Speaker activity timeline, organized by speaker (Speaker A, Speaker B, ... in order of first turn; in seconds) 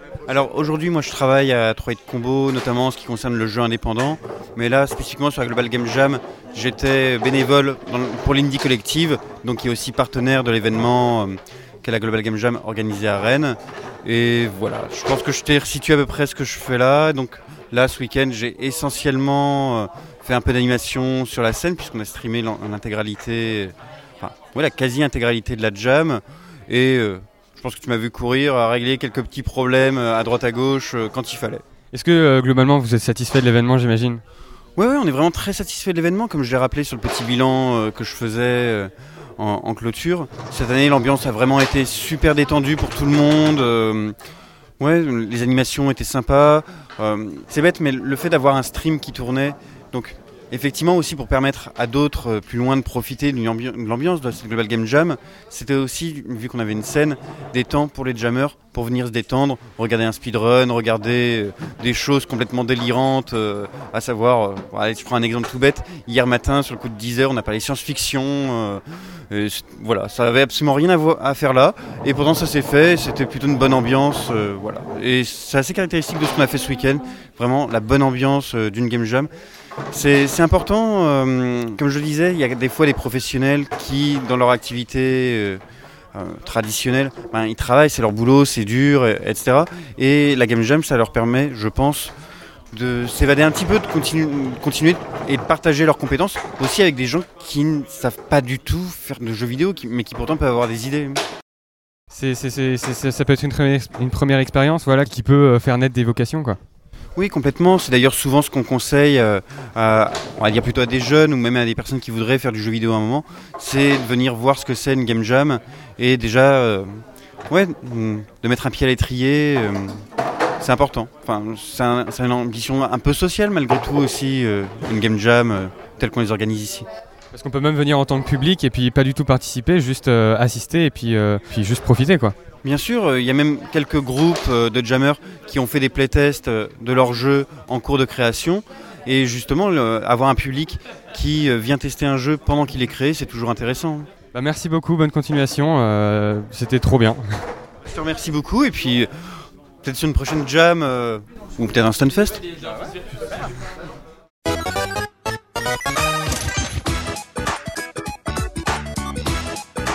Speaker A: 0.3-31.6, 34.8-44.1, 44.8-79.3, 79.9-85.6, 86.1-92.1, 92.7-101.2, 107.2-117.0, 117.5-120.0, 120.6-126.8, 132.6-144.1, 147.9-149.1, 149.8-152.4
Speaker B: 31.9-34.2, 102.1-106.6, 127.3-132.3, 144.3-147.2